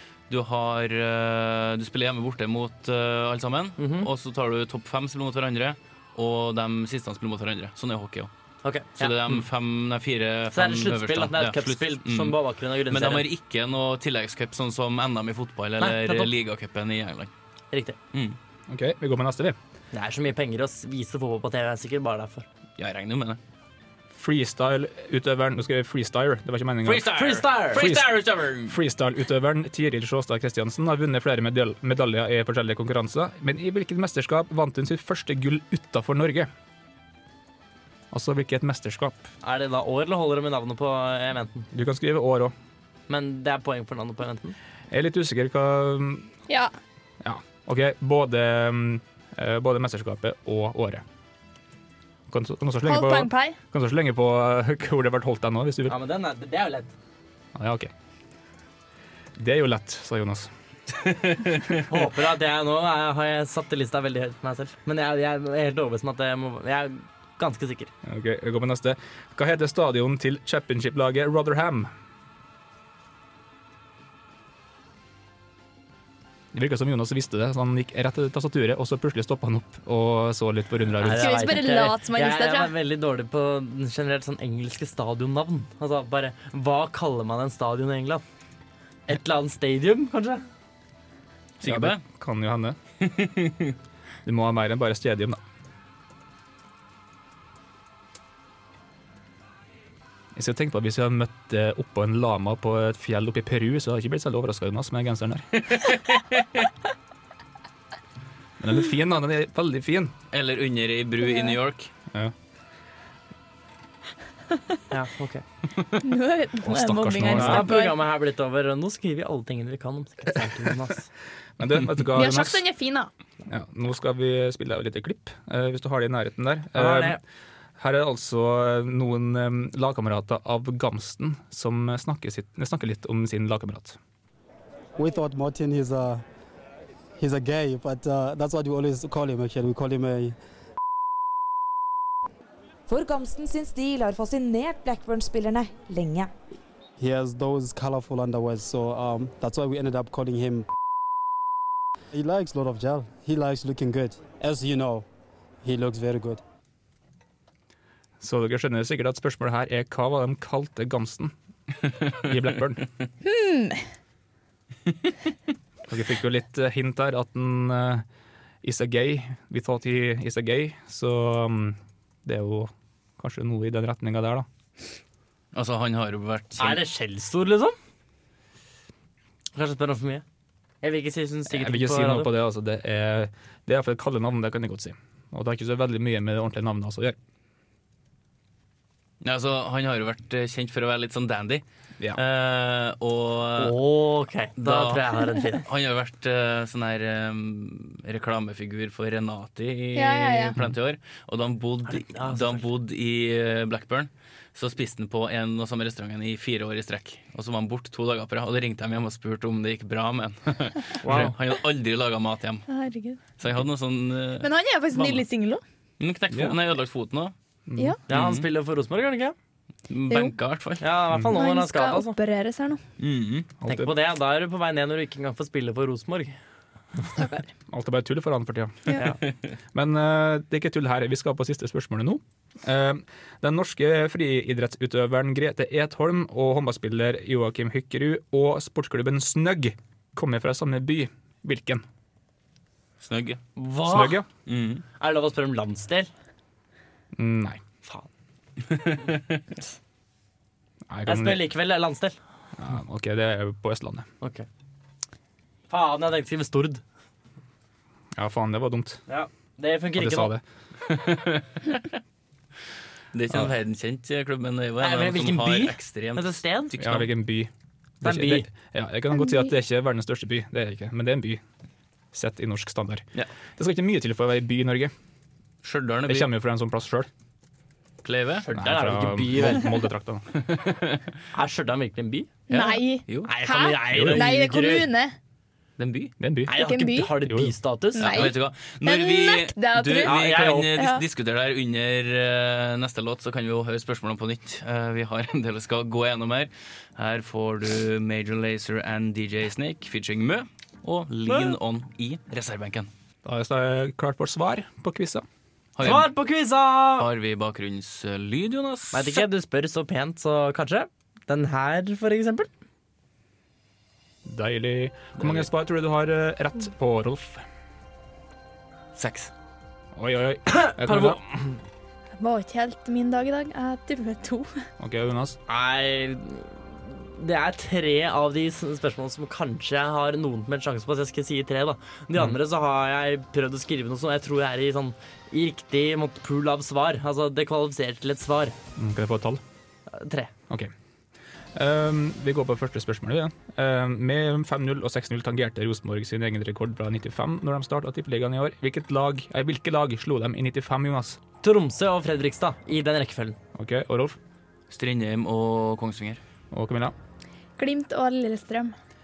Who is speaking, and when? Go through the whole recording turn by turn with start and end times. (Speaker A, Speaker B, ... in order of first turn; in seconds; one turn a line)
Speaker A: 0.3-8.3
Speaker B: 3.8-4.1
Speaker B: 8.6-9.2
Speaker A: 9.0-12.4
Speaker B: 10.5-13.2
Speaker A: 12.9-17.3
Speaker B: 15.8-16.3
Speaker B: 17.7-18.0
Speaker C: 18.7-19.6
Speaker B: 19.9-22.4
Speaker A: 22.8-23.4
Speaker C: 24.1-36.5
Speaker A: 26.8-28.8
Speaker B: 27.1-27.9
Speaker C: 38.1-39.3
Speaker B: 39.4-41.7
Speaker C: 41.7-42.5
Speaker B: 43.1-44.5
Speaker C: 44.9-46.3
Speaker C: 47.2-51.0
Speaker C: 52.3-56.0
Speaker D: 52.8-53.5
Speaker B: 55.9-56.9
Speaker C: 57.5-57.9
Speaker C: 59.4-60.5
Speaker A: 61.0-61.7
Speaker B: 61.9-67.9
Speaker C: 68.0-71.9
Speaker C: 76.5-81.4
Speaker B: 81.0-88.2
Speaker D: 81.2-82.7
Speaker B: 89.1-90.4
Speaker A: 91.6-92.0
Speaker C: 91.6-92.8
Speaker A: 93.0-93.7
Speaker C: 94.2-95.4
Speaker C: 100.3-105.6
Speaker A: 105.7-106.3
Speaker C: 108.6-110.1
Speaker A: 110.3-111.9
Speaker B: 114.9-115.4
Speaker D: 116.0-118.0
Speaker C: 116.6-117.7
Speaker B: 117.3-121.1
Speaker C: 121.6-122.6
Speaker D: 122.1-123.1
Speaker C: 123.5-127.2
Speaker B: 126.7-127.2
Speaker C: 127.8-134.0
Speaker E: 135.0-136.2
Speaker E: 137.2-140.3
Speaker F: 142.9-146.3
Speaker E: 147.0-150.6
Speaker E: 152.1-155.0
Speaker E: 155.6-156.4
Speaker C: 158.2-161.3
Speaker C: 162.2-162.8
Speaker D: 163.2-163.8
Speaker C: 165.9-168.1
Speaker C: 168.6-174.4
Speaker A: 175.5-176.8
Speaker B: 176.6-177.8
Speaker B: 179.5-180.2
Speaker B: 180.8-182.3
Speaker C: 181.5-187.2
Speaker A: 189.2-191.6
Speaker A: 192.2-193.8
Speaker B: 193.6-195.6
Speaker A: 194.6-212.7
Speaker D: 199.9-200.6
Speaker B: 201.9-202.6
Speaker B: 211.0-211.3
Speaker D: 212.7-213.2
Speaker A: 213.4-214.5
Speaker D: 214.4-215.6
Speaker A: 216.0-217.3
Speaker C: 216.3-216.6
Speaker C: 217.7-218.0
Speaker B: 218.1-219.3
Speaker A: 218.1-218.4
Speaker A: 219.9-220.8
Speaker B: 220.8-222.2
Speaker D: 221.3-222.8
Speaker A: 223.0-223.5
Speaker C: 223.6-223.9
Speaker B: 223.7-226.3
Speaker D: 227.2-227.5
Speaker C: 227.7-228.9
Speaker C: 229.7-241.8
Speaker A: 243.0-243.4
Speaker B: 243.6-244.2
Speaker C: 243.8-244.2
Speaker A: 244.4-244.8
Speaker B: 245.0-246.1
Speaker C: 247.1-247.6
Speaker A: 248.7-249.4
Speaker C: 250.9-251.5
Speaker B: 251.1-252.2
Speaker C: 252.6-254.1
Speaker B: 254.2-254.4
Speaker B: 255.7-256.8
Speaker C: 258.1-259.0
Speaker B: 259.1-260.3
Speaker C: 259.9-260.4
Speaker A: 260.9-261.9
Speaker A: 263.1-266.4
Speaker B: 264.8-267.1
Speaker C: 266.8-271.4
Speaker B: 268.0-268.5
Speaker C: 272.1-274.9
Speaker A: 275.6-276.3
Speaker C: 276.1-277.1
Speaker A: 278.0-278.5
Speaker B: 278.4-279.7
Speaker C: 278.5-280.2
Speaker A: 280.3-281.0
Speaker B: 281.3-282.3
Speaker D: 282.5-285.1
Speaker A: 282.5-283.3
Speaker B: 283.2-284.9
Speaker C: 283.9-284.2
Speaker A: 285.8-286.1
Speaker C: 286.2-286.5
Speaker B: 286.5-288.3
Speaker D: 286.5-287.1
Speaker C: 287.2-287.5
Speaker D: 287.9-290.2
Speaker A: 288.0-302.9
Speaker B: 290.0-290.8
Speaker D: 290.7-291.0
Speaker C: 303.2-305.2
Speaker A: 305.8-306.1
Speaker B: 305.8-307.1
Speaker A: 307.0-309.2
Speaker B: 308.9-312.5
Speaker C: 314.2-317.4
Speaker A: 318.9-319.3
Speaker C: 319.9-321.2
Speaker B: 320.5-321.5
Speaker D: 322.2-324.5
Speaker C: 324.8-325.4
Speaker B: 325.5-338.6
Speaker C: 338.8-339.4
Speaker B: 339.9-340.3
Speaker C: 341.5-351.2
Speaker B: 351.4-353.4
Speaker C: 353.5-354.2
Speaker A: 354.7-356.2
Speaker C: 356.5-356.9
Speaker D: 357.6-358.7